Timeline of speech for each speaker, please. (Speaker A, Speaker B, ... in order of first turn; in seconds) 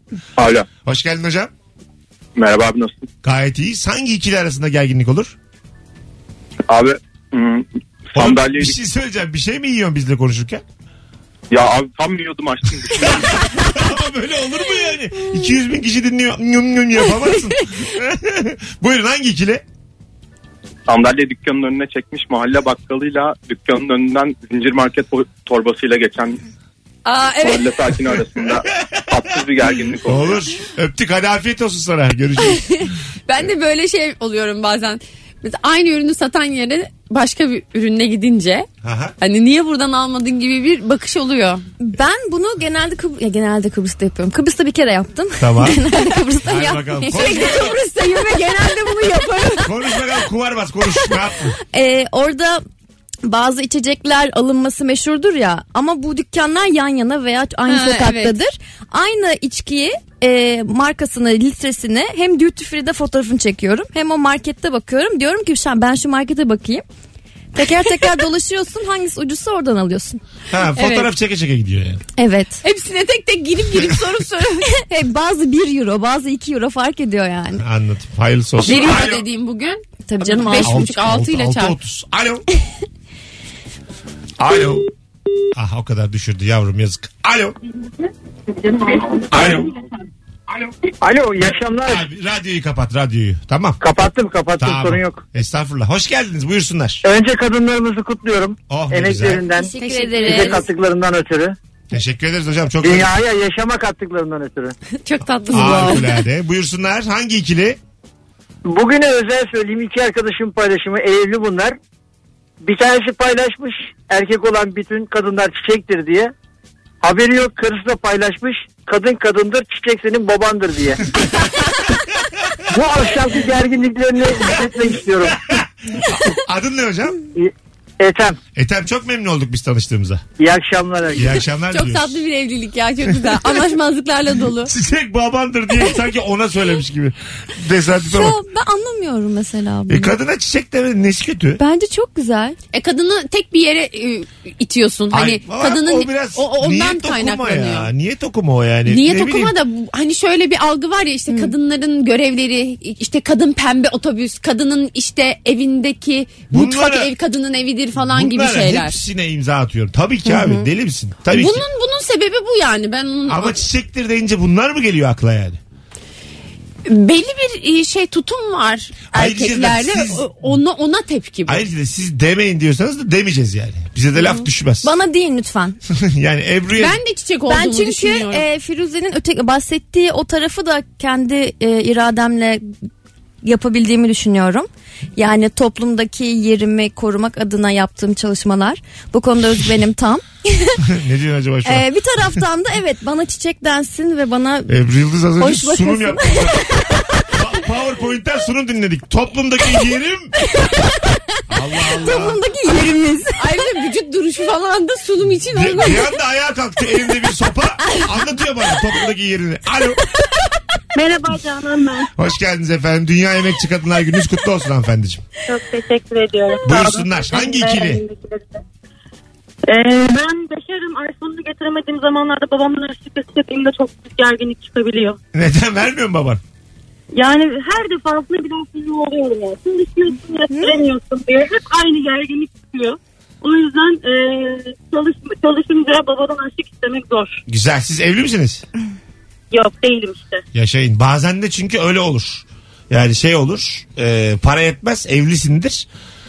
Speaker A: 0.8-1.5, 3.2-5.3, 8.1-10.6, 13.0-19.6, 30.0-32.8, 38.8-39.1, 45.4-45.8, 46.4-47.8, 49.6-51.6, 70.5-72.0, 77.6-79.2, 80.6-82.5, 84.4-84.9, 85.5-87.6, 89.3-89.7, 91.9-93.8, 94.6-97.0, 98.7-99.4, 101.9-103.1, 105.5-107.8, 125.4-127.2, 128.6-130.2, 131.1-132.2, 134.6-138.4, 139.9-141.6, 145.1-149.6, 156.5-157.1, 158.0-161.7, 163.3-165.6, 169.1-170.5, 171.5-174.9, 175.9-177.0, 190.8-191.9, 194.7-196.7, 197.3-200.3, 201.5-202.4, 205.4-210.0, 212.2-215.2, 216.6-218.0, 225.3-226.4, 237.5-238.6, 240.5-245.9
Speaker B: 2.4-2.9, 8.3-8.7, 11.5-13.8, 20.9-26.4, 27.4-30.4
Speaker C: 27.1-27.7, 32.4-38.7, 39.2-41.6, 47.1-49.7, 57.7-58.4, 70.7-71.1, 72.6-74.7, 78.6-81.8, 99.8-100.6, 105.0-106.2, 131.7-134.7, 142.7-147.9, 148.8-159.0, 161.3-163.6, 166.8-171.7, 176.8-178.4, 203.4-206.1
Speaker D: 41.8-47.4, 51.7-52.6, 53.2-66.8, 67.5-70.2, 72.2-72.6, 74.7-77.6, 80.1-81.0, 99.6-100.7, 138.0-140.1, 141.6-142.6, 160.3-160.7, 174.8-175.8, 177.5-182.6, 183.4-190.8, 191.6-194.8, 195.4-196.8, 200.5-201.0, 202.0-203.4
Speaker E: 91.0-92.0, 93.8-95.2, 97.0-101.5, 102.8-104.7, 108.7-111.8, 112.6-116.3, 117.0-121.0, 122.7-125.6, 127.3-128.4, 130.4-131.4
Speaker F: 210.9-212.1, 215.5-218.6, 219.7-225.2, 227.1-237.4, 239.5-240.4